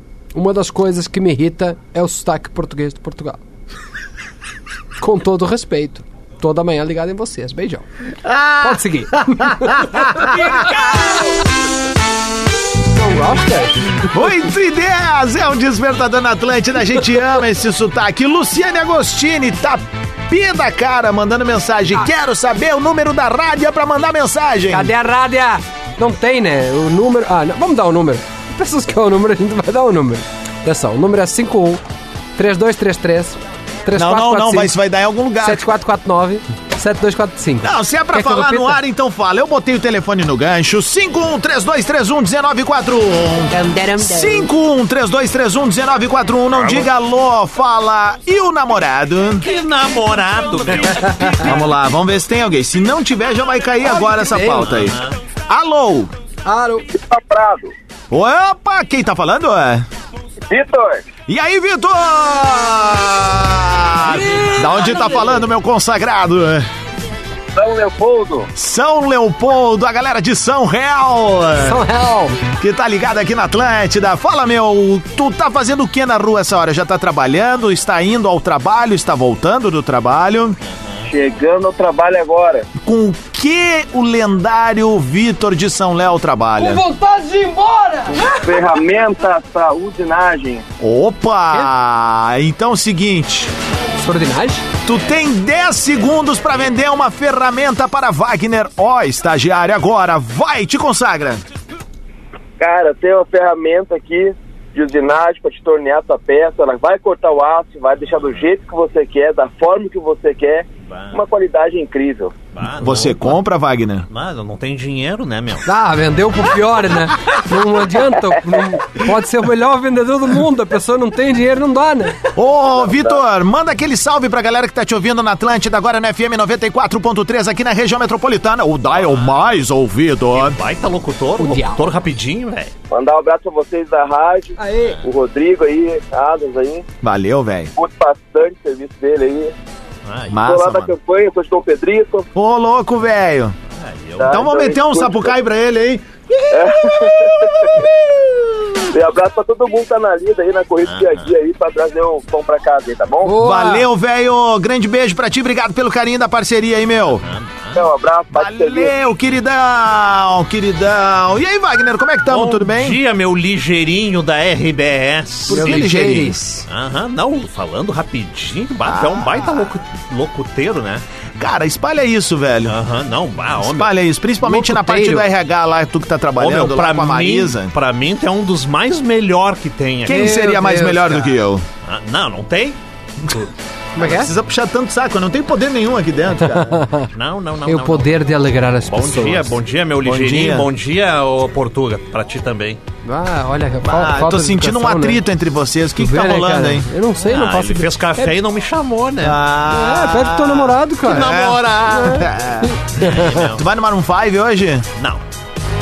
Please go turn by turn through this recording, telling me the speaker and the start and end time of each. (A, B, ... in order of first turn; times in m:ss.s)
0:00.3-0:03.4 A
0:05.0-0:07.9 A
0:08.2-0:10.7 B
0:08.6-0:11.1 A
0:12.8-0:14.1 A
0:14.1-0:24.9 B
0:24.7-0:31.8 A
0:32.4-0:34.8 A
0:34.0-0:35.7 B
0:35.4-0:38.8 A
0:37.6-0:49.5 B
0:43.5-0:44.4 A
0:49.4-0:51.5 C
0:51.0-0:51.5 A
0:51.4-0:56.1 B
0:53.8-0:54.7 A
0:54.4-0:55.2 C
0:56.4-0:56.9 A
0:56.9-0:57.7 D
0:58.1-0:59.9 B
1:00.5-1:01.1 D
1:01.3-1:06.7 B
1:04.8-1:05.2 A
1:07.6-1:08.5 D
1:08.6-1:11.8 B
1:11.6-1:12.4 A
1:12.6-1:20.6 B
1:20.7-1:21.1 C
1:21.1-1:22.7 D
1:22.8-1:26.8 B
1:26.6-1:28.4 A
1:28.1-1:30.6 D
1:30.8-1:33.5 B
1:34.0-1:34.7 A
1:34.8-1:41.4 B
1:42.6-1:52.4 D
1:48.1-1:48.4 C
1:50.9-1:51.2 C
1:52.6-1:53.4 C
1:52.8-1:54.1 B
1:54.1-1:55.6 C
1:55.7-2:02.2 A
2:02.4-2:10.6 B
2:02.7-2:03.2 D
2:09.0-2:09.5 C
2:10.4-2:12.7 C
2:11.4-2:11.9 A
2:12.9-2:16.9 D
2:14.6-2:15.0 A
2:17.0-2:17.7 B
2:17.8-2:19.5 D
2:20.1-2:20.4 C
2:20.3-2:20.9 B
2:20.4-2:22.3 D
2:22.4-2:23.6 B
2:23.8-2:24.4 C
2:24.2-2:25.4 D
2:24.2-2:28.2 B
2:26.5-2:27.7 D
2:28.9-2:33.4 D
2:30.9-2:31.3 C
2:33.2-2:33.9 A
2:33.4-2:37.2 B
2:37.2-2:37.8 C
2:37.8-2:38.9 D
2:38.3-2:43.0 B
2:42.3-2:46.0 C
2:45.5-2:46.7 A
2:45.5-2:46.4 B
2:46.7-2:51.0 C
2:48.8-2:49.7 B
2:51.4-2:52.8 B
2:52.7-2:53.9 C
2:53.6-2:57.7 B
2:54.4-2:55.3 A
2:56.4-3:00.3 C
3:00.1-3:01.6 B
3:00.1-3:01.4 A
3:01.8-3:03.5 C
3:04.0-3:04.3 A
3:04.0-3:06.8 B
3:06.6-3:07.1 A
3:07.2-3:12.8 C
3:07.7-3:09.6 A
3:10.0-3:10.7 B
3:13.0-3:15.2 A
3:13.8-3:16.9 B
3:16.0-3:18.4 A
3:17.2-3:19.4 C
3:19.2-3:22.8 B
3:19.7-3:21.4 A
3:21.1-3:22.1 C
3:21.9-3:23.5 A
3:23.0-3:23.6 C
3:23.5-3:24.9 B